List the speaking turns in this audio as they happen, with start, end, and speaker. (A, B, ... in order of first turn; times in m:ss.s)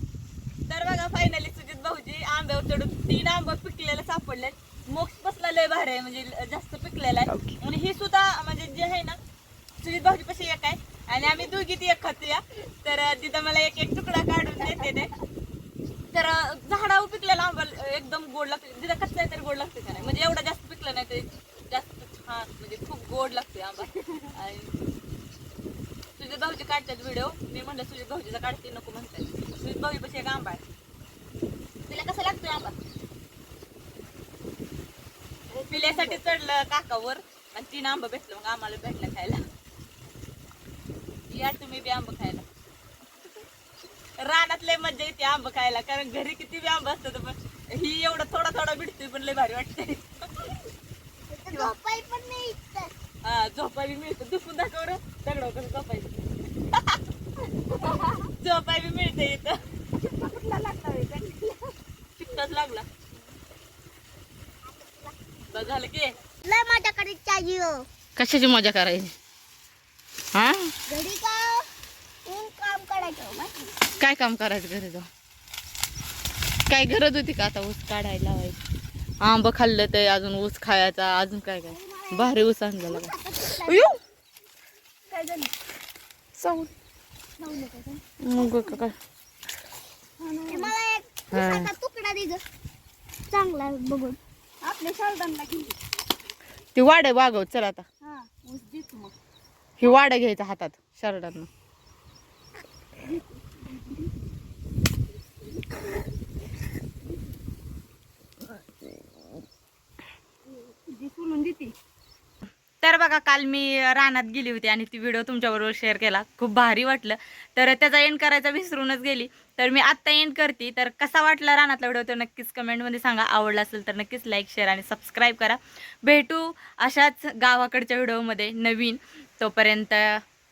0:00.7-0:09.2 A
0:09.8-0:15.1 A
0:16.1-0:24.7 A
0:26.2-0:30.6 A
0:31.9-0:32.7 A
0:35.5-0:36.2 B
0:35.7-0:39.4 A
0:41.3-0:42.4 A
0:44.2-0:50.5 A
0:51.3-0:52.9 C
0:53.2-0:57.0 A
0:58.2-0:59.6 A
1:00.0-1:01.7 B
1:02.2-1:02.8 A
1:04.8-1:05.1 C
1:05.5-1:06.1 A
1:06.4-1:07.8 C
1:08.2-1:09.1 A
1:10.3-1:10.7 A
1:10.9-1:11.7 C
1:12.2-1:13.7 C
1:14.0-1:15.0 A
1:16.7-1:18.6 A
1:19.2-1:24.0 A
1:21.8-1:23.8 C
1:25.1-1:25.5 B
1:26.4-1:26.7 A
1:27.4-1:28.0 B
1:28.2-1:29.0 A
1:30.2-1:30.7 B
1:30.5-1:32.4 C
1:31.3-1:31.7 A
1:33.3-1:34.2 C
1:34.6-1:35.7 B
1:36.7-1:37.8 A
1:38.0-1:39.1 B
1:39.8-1:41.5 A
1:50.6-1:51.7 B
1:52.8-2:10.2 A